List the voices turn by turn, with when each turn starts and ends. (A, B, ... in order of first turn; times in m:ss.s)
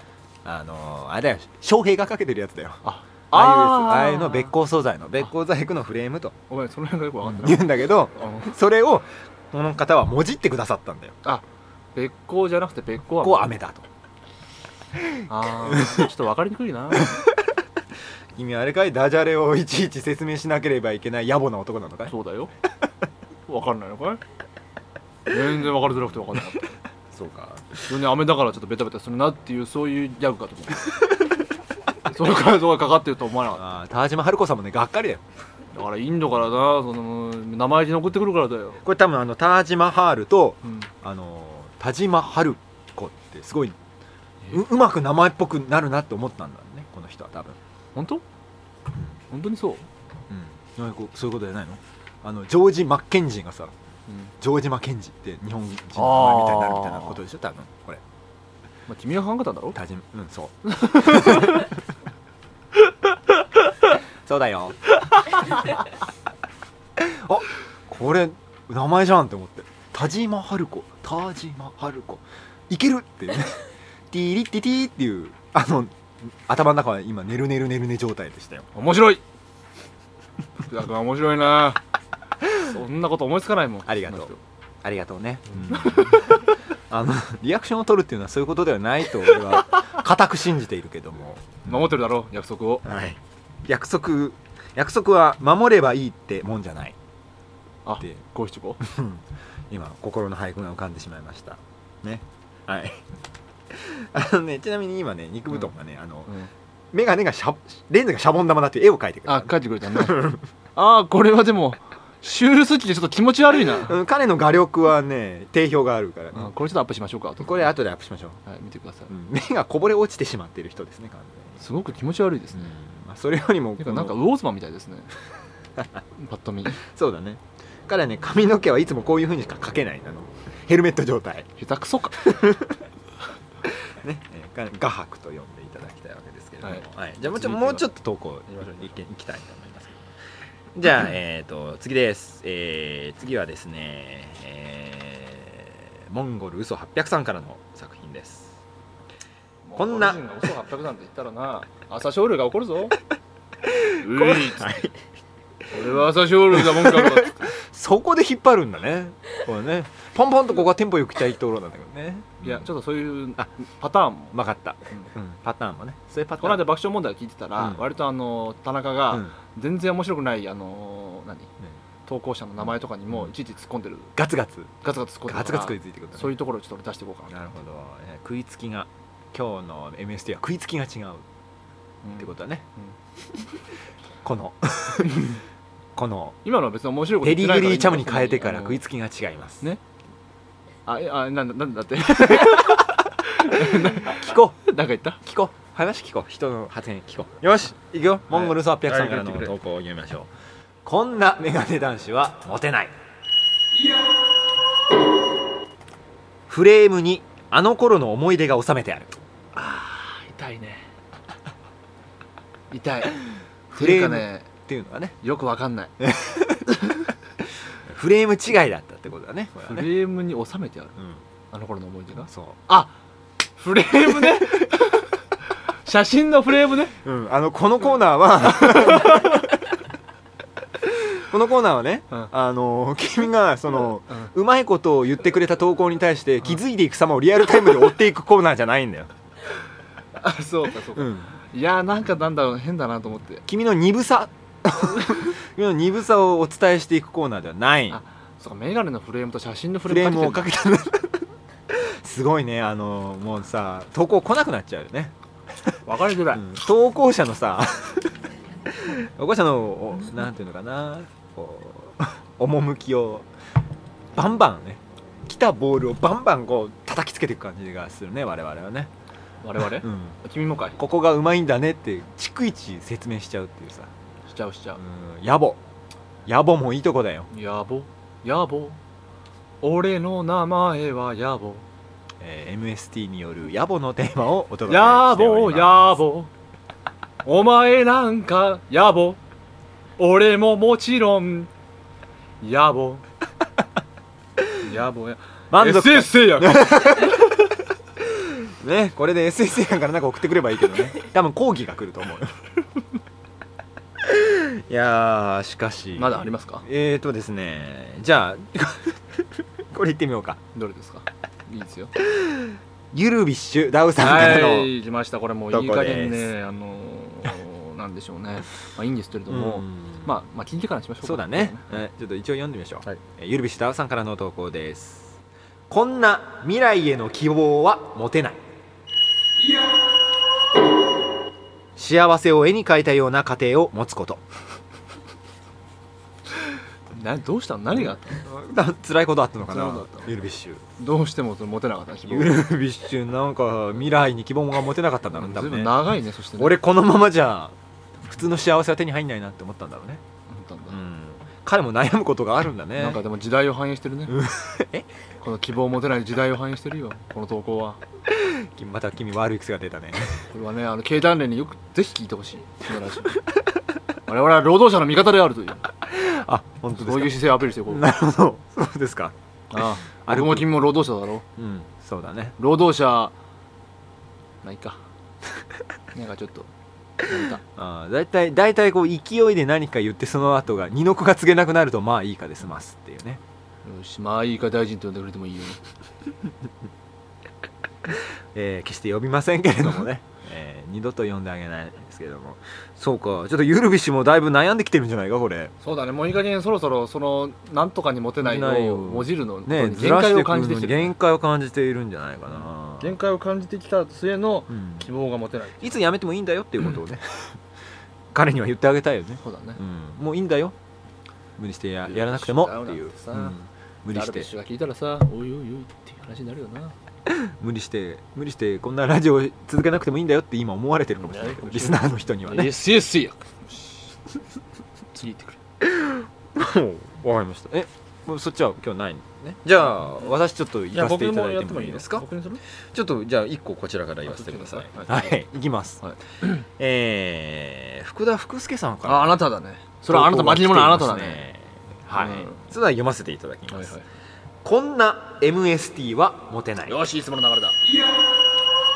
0:00.4-0:02.8 A
0:02.8-0:04.5 B
0:03.3-0:06.4 A
0:06.5-0:08.5 B
0:07.2-0:11.2 A
0:11.2-0:13.6 B
0:13.2-0:13.8 A
0:15.3-0:17.2 B
0:15.6-0:16.1 A
0:17.0-0:17.4 A
0:18.4-0:22.1 A
0:22.1-0:22.5 B
0:23.5-0:24.2 B
0:25.3-0:26.7 B
0:27.1-0:27.8 A
0:27.9-0:31.0 B
0:32.0-0:33.7 B
0:33.6-0:35.2 A
0:35.7-0:38.8 B
0:38.8-0:43.8 A
0:40.6-0:40.9 B
0:44.5-0:47.6 A
0:48.0-0:48.2 B
0:49.3-0:49.9 B
0:50.3-0:53.7 A
0:54.4-0:58.0 A
0:56.0-0:57.2 B
0:58.9-0:59.8 B
0:59.8-1:01.7 A
1:00.7-1:01.7 B
1:04.2-1:04.8 A
1:07.0-1:18.7 A
1:18.8-1:19.2 B
1:20.6-1:21.8 B
1:22.6-1:24.4 B
1:23.9-1:24.3 A
1:24.8-1:31.7 A
1:25.6-1:26.4 B
1:31.6-1:32.9 B
1:32.8-1:37.0 A
1:37.9-1:38.8 B
1:38.8-1:43.0 A
1:43.7-1:46.3 A
1:46.9-1:50.4 A
1:49.3-1:54.0 B
1:53.8-1:56.5 A
1:56.3-1:57.7 B
1:57.4-1:58.4 A
1:58.5-1:59.1 B
1:59.1-2:01.6 A
2:01.6-2:02.7 B
2:02.6-2:04.2 A
2:03.8-2:05.1 B
2:06.2-2:06.8 B
2:06.8-2:11.5 A
2:11.6-2:12.4 B
2:12.2-2:12.8 A
2:13.6-2:20.2 A
2:16.6-2:17.9 B
2:20.7-2:28.6 A
2:29.7-2:33.0 B
2:29.8-2:30.2 A
2:33.7-2:35.0 A
2:34.0-2:34.8 B
2:35.7-2:37.5 B
2:36.6-2:42.7 A
2:42.4-2:44.4 B
2:44.3-2:46.7 A
2:46.4-2:51.5 B
2:52.1-2:54.1 B
2:54.2-2:54.7 A
2:54.8-2:57.4 B
2:55.3-2:56.4 A
2:57.3-3:01.2 A
3:02.0-3:02.9 B
3:02.2-3:02.6 A
3:04.2-3:05.4 A
3:05.0-3:05.4 B
3:06.0-3:06.4 A
3:06.4-3:08.8 B
3:07.2-3:09.6 A
3:10.9-3:15.2 B
3:12.2-3:12.9 A
3:13.7-3:14.6 A
3:15.2-3:20.3 A
3:18.3-3:19.5 B
3:20.8-3:22.9 A
3:26.5-3:29.2 A
3:29.5-3:30.9 B
3:32.7-3:33.2 B
3:33.7-3:35.2 A
3:33.7-3:34.5 B
3:35.2-3:35.9 B
3:36.0-3:36.8 A
3:37.9-3:39.9 A
3:39.7-3:41.0 B
3:41.5-3:42.9 B
3:42.3-3:42.6 A
3:43.6-3:45.1 B
3:44.1-3:44.8 A
3:45.8-3:47.0 B
3:47.0-3:49.7 A
3:48.6-3:49.4 B
3:50.8-3:59.1 A
4:00.2-4:03.4 B
4:01.0-4:01.3 A
4:03.5-4:08.0 A
4:07.9-4:10.5 B
4:09.9-4:15.1 A
4:15.9-4:16.4 B
4:16.3-4:18.2 A
4:18.7-4:23.3 A
4:24.1-4:28.9 A
4:29.4-4:30.8 B
4:29.8-4:30.2 A
4:30.8-4:33.9 A
4:34.3-4:34.8 B
4:34.8-4:35.6 A
4:36.3-4:37.3 A
4:37.3-4:38.8 B
4:39.6-4:41.7 B
4:42.2-4:46.0 A
4:44.7-4:46.3 B
4:47.2-4:49.2 B
4:50.0-4:51.5 B
4:52.4-4:53.0 B
4:54.6-4:57.2 B
4:55.5-4:57.4 A
4:58.0-5:02.4 A
5:04.0-5:10.4 A
5:06.0-5:06.6 B
5:10.5-5:11.9 B
5:12.0-5:14.7 A
5:14.0-5:21.8 B
5:15.5-5:16.3 A
5:19.3-5:20.1 A
5:21.0-5:25.2 A
5:25.7-5:28.4 A
5:31.8-5:34.2 A
5:36.9-5:38.2 B
5:38.2-5:40.6 A
5:39.5-5:40.1 B
5:40.8-5:42.4 B
5:42.1-5:50.0 A
5:45.1-5:46.6 B
5:50.3-5:50.8 B
5:50.7-5:53.0 A
5:52.8-5:54.2 B
5:54.1-5:54.9 A
5:55.2-5:57.8 B
5:58.1-6:00.3 A
6:00.3-6:03.2 B
6:04.1-6:05.7 B
6:05.8-6:09.2 A
6:06.8-6:07.8 B
6:09.5-6:11.2 B
6:10.1-6:10.6 A
6:11.4-6:12.4 A
6:12.4-6:13.1 B
6:14.4-6:14.8 B
6:15.9-6:16.5 B
6:17.0-6:17.4 B
6:17.6-6:23.2 A
6:23.6-6:25.6 B
6:27.9-6:35.5 A
6:35.6-6:41.0 B
6:38.2-6:43.0 A
6:42.3-6:45.8 B
6:44.5-6:44.9 A
6:45.6-6:47.4 A
6:48.1-6:50.6 A
6:49.2-6:49.6 B
6:51.4-6:54.3 A
6:51.8-6:53.4 B
6:53.9-6:56.7 B
6:57.1-7:02.5 A
7:01.0-7:03.5 B
7:05.0-7:05.4 B
7:05.6-7:12.1 A
7:10.7-7:12.4 B
7:12.7-7:19.2 A
7:14.1-7:15.2 B
7:15.8-7:16.4 B
7:18.8-7:21.2 B
7:19.9-7:23.7 A
7:21.9-7:22.4 B
7:23.5-7:23.9 B
7:24.4-7:26.8 A
7:26.6-7:27.6 B